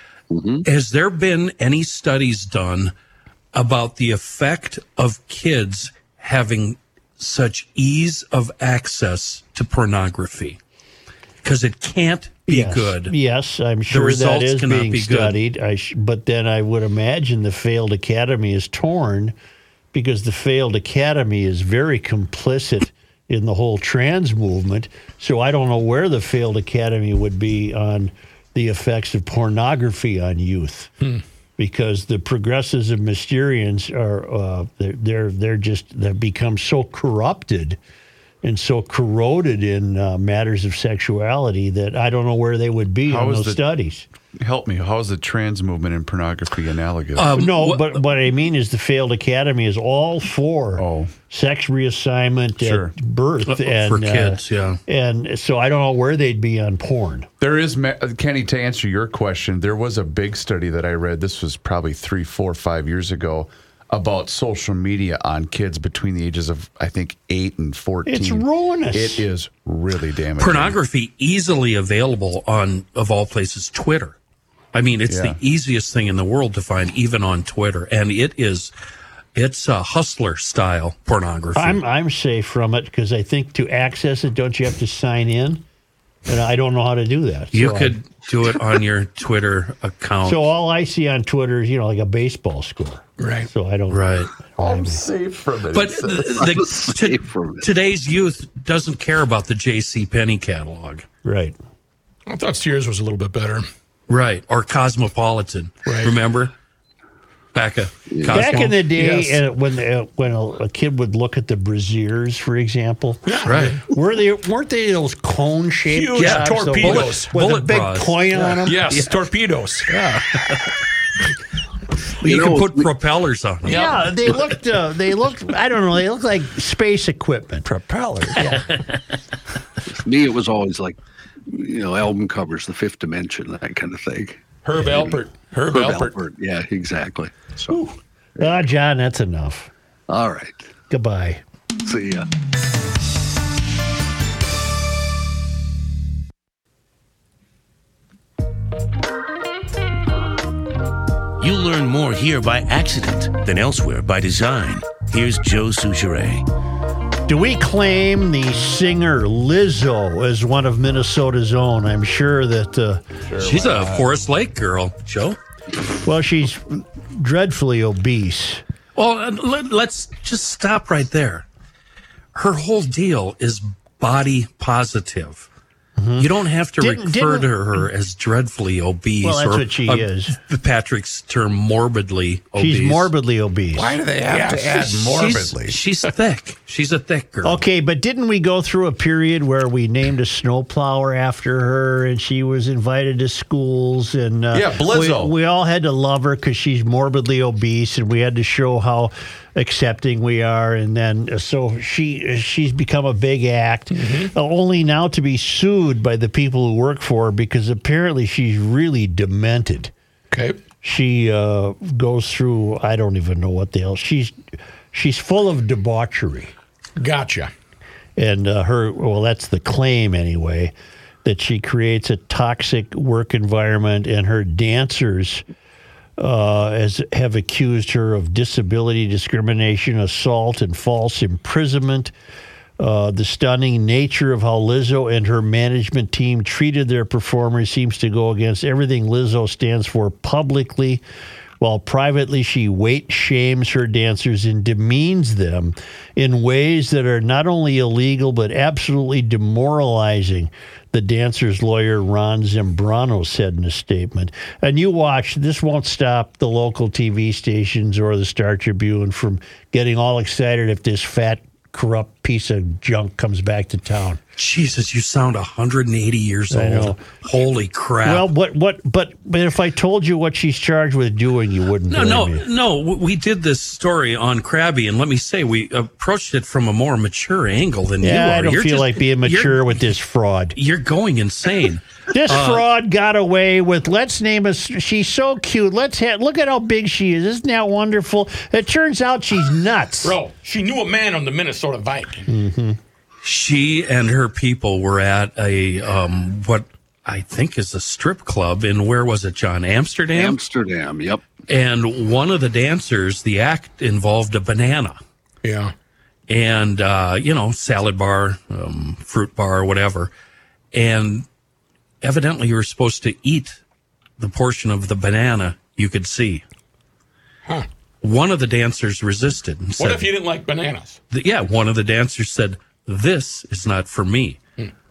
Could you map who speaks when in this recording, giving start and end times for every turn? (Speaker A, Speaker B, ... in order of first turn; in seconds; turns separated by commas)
Speaker A: 0.3-0.6, Speaker B: 0.6-2.9, Speaker B: 3.5-10.6, Speaker B: 11.4-13.1, Speaker C: 12.5-19.3, Speaker B: 13.9-15.4, Speaker C: 19.9-30.9, Speaker C: 31.6-37.8, Speaker C: 38.4-44.0, Speaker D: 43.1-43.6, Speaker D: 44.4-47.4, Speaker B: 47.1-48.0, Speaker C: 47.4-57.3, Speaker D: 50.8-51.1, Speaker D: 52.6-52.9, Speaker B: 53.5-54.8, Speaker D: 57.4-70.8, Speaker C: 68.1-69.2, Speaker B: 70.4-74.2, Speaker B: 74.7-78.7, Speaker D: 75.1-75.4, Speaker B: 79.3-81.8, Speaker C: 81.6-85.6, Speaker C: 86.3-88.0, Speaker B: 87.5-90.5, Speaker C: 90.2-95.0, Speaker E: 93.2-93.5, Speaker B: 93.9-94.3, Speaker D: 94.6-96.5, Speaker B: 95.7-101.0, Speaker A: 96.3-97.7, Speaker C: 101.2-101.5, Speaker E: 102.3-103.7, Speaker B: 104.1-106.5, Speaker E: 105.9-106.1, Speaker B: 107.5-108.8, Speaker A: 108.1-108.5, Speaker C: 108.3-119.0, Speaker E: 108.9-109.4, Speaker E: 113.2-113.8, Speaker B: 113.5-113.8, Speaker E: 115.9-117.3, Speaker B: 116.2-118.3, Speaker E: 118.3-120.0, Speaker B: 120.0-120.6, Speaker B: 122.2-124.0, Speaker A: 122.2-122.9, Speaker E: 123.7-124.0, Speaker C: 123.7-128.6, Speaker B: 128.3-129.0, Speaker A: 129.9-137.8, Speaker E: 134.6-136.2, Speaker C: 137.7-139.7, Speaker A: 138.4-138.7, Speaker A: 140.1-140.6, Speaker C: 140.9-141.4, Speaker A: 141.8-142.3, Speaker F: 151.4-156.4, Speaker C: 157.3-163.0, Speaker D: 163.2-164.2, Speaker B: 163.4-165.4, Speaker C: 166.0-168.6, Speaker B: 168.9-171.4, Speaker B: 172.3-175.5, Speaker C: 176.0-176.3, Speaker B: 176.2-183.1, Speaker C: 176.8-177.5, Speaker C: 179.2-180.3, Speaker C: 182.6-184.0, Speaker D: 183.7-185.8, Speaker E: 184.3-185.0, Speaker B: 185.0-187.6, Speaker C: 187.4-209.9, Speaker D: 194.5-195.3, Speaker E: 203.9-204.3, Speaker E: 210.3-210.6, Speaker C: 210.8-214.3, Speaker C: 214.9-216.5, Speaker E: 217.0-217.5, Speaker C: 218.2-220.7, Speaker C: 221.2-225.4, Speaker C: 226.2-232.1, Speaker C: 232.8-241.0, Speaker C: 241.6-264.2, Speaker B: 264.4-268.3, Speaker C: 266.5-267.0, Speaker C: 268.0-272.4, Speaker B: 271.9-279.8, Speaker C: 278.0-280.6, Speaker B: 280.6-282.6, Speaker C: 282.1-290.2, Speaker E: 290.0-292.3, Speaker C: 292.3-292.8, Speaker B: 293.2-300.4, Speaker A: 300.1-301.2, Speaker B: 301.5-305.0, Speaker E: 305.4-305.7, Speaker B: 306.3-310.1, Speaker B: 310.7-311.2, Speaker B: 312.0-313.6, Speaker B: 314.2-316.4, Speaker B: 318.0-320.1, Speaker E: 319.8-321.0, Speaker B: 321.1-324.4